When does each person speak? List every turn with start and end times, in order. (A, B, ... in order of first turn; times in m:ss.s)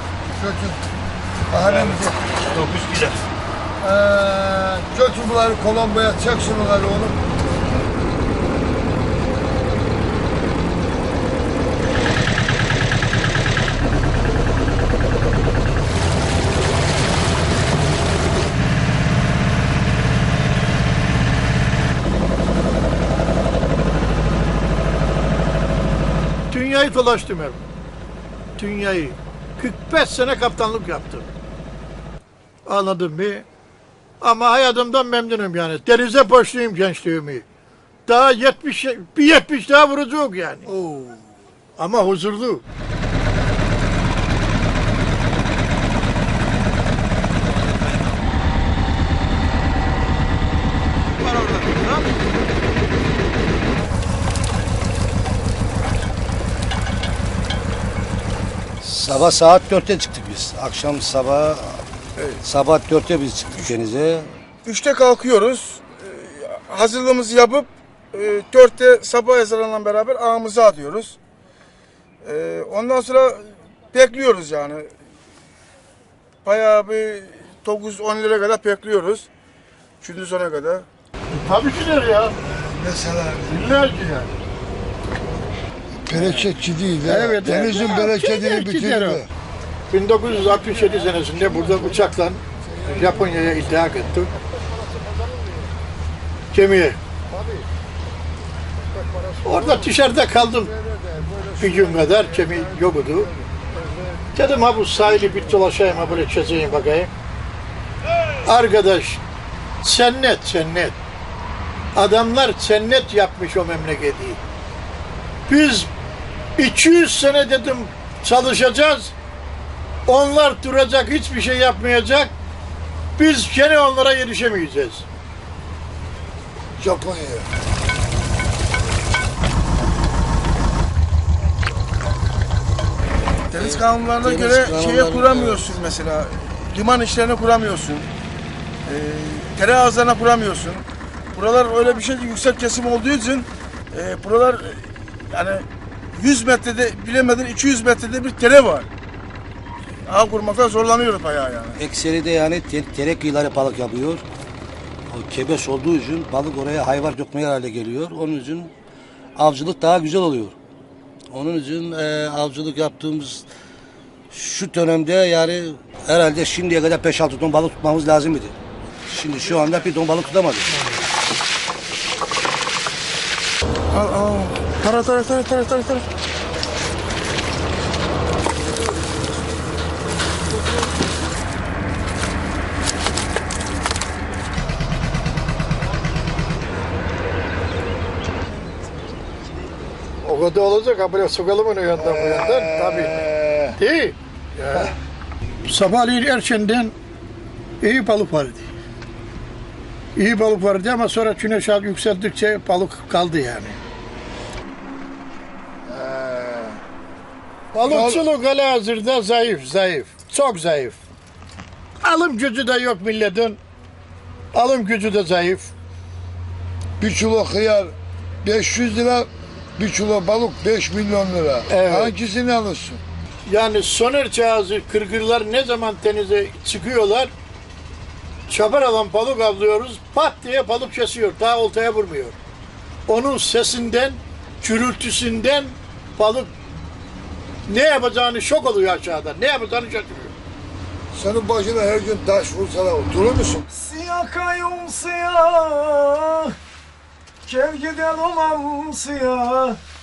0:00.4-0:00.8 A
0:01.5-0:02.3 A
0:03.8-0:07.2 A
0:26.5-0:27.6 B
0:28.6-0:31.3 B
0:32.7-0:33.4 B
0:34.2-0:37.4 B
0:38.1-0:40.8 B
0:41.8-0:42.6 B
0:51.2-0:52.1 B
0:58.8-1:01.8 C
1:02.2-1:02.4 D
1:02.4-1:04.3 C
1:04.6-1:11.2 D
1:12.2-1:14.9 D
1:16.4-1:19.3 D
1:20.0-1:20.9 D
1:21.3-1:22.4 B
1:22.4-1:23.7 A
1:23.5-1:24.3 B
1:26.0-1:29.3 A
1:27.0-1:29.2 B
1:29.9-1:34.3 B
1:32.7-1:33.2 A
1:36.5-1:37.0 B
1:39.4-1:40.7 B
1:39.6-1:39.9 A
1:40.8-1:43.6 A
1:41.6-1:43.3 B
1:44.3-1:47.1 B
1:48.4-1:49.2 B
1:49.8-1:51.0 B
1:52.0-1:54.4 B
1:55.5-1:55.9 B
1:56.6-1:59.1 B
2:00.1-2:02.3 B
2:03.2-2:05.1 B
2:06.8-2:07.5 A
2:13.5-2:18.1 D
2:13.5-2:15.8 C
2:18.8-2:28.9 D
2:30.0-2:31.8 D
2:31.8-2:34.2 C
2:35.1-2:38.7 C
2:39.4-2:40.6 C
2:41.3-2:43.5 C
2:44.3-2:48.6 C
2:49.1-2:50.7 C
2:53.9-2:56.0 D
3:10.2-3:13.2 B
3:12.0-3:13.8 A
3:13.8-3:14.9 B
3:15.6-3:16.9 B
3:17.8-3:18.7 B
3:20.2-3:23.8 B
3:25.9-3:26.8 A
3:27.7-3:31.0 B
3:27.8-3:28.2 A
3:32.0-3:33.6 B
3:34.5-3:35.7 B
3:37.0-3:43.0 A
3:41.7-3:42.1 B
3:43.5-3:47.3 B
3:48.5-3:52.4 B
3:53.1-3:56.5 B
3:57.7-4:00.3 B
4:01.1-4:03.7 A
4:03.7-4:06.5 E
4:07.5-4:09.8 E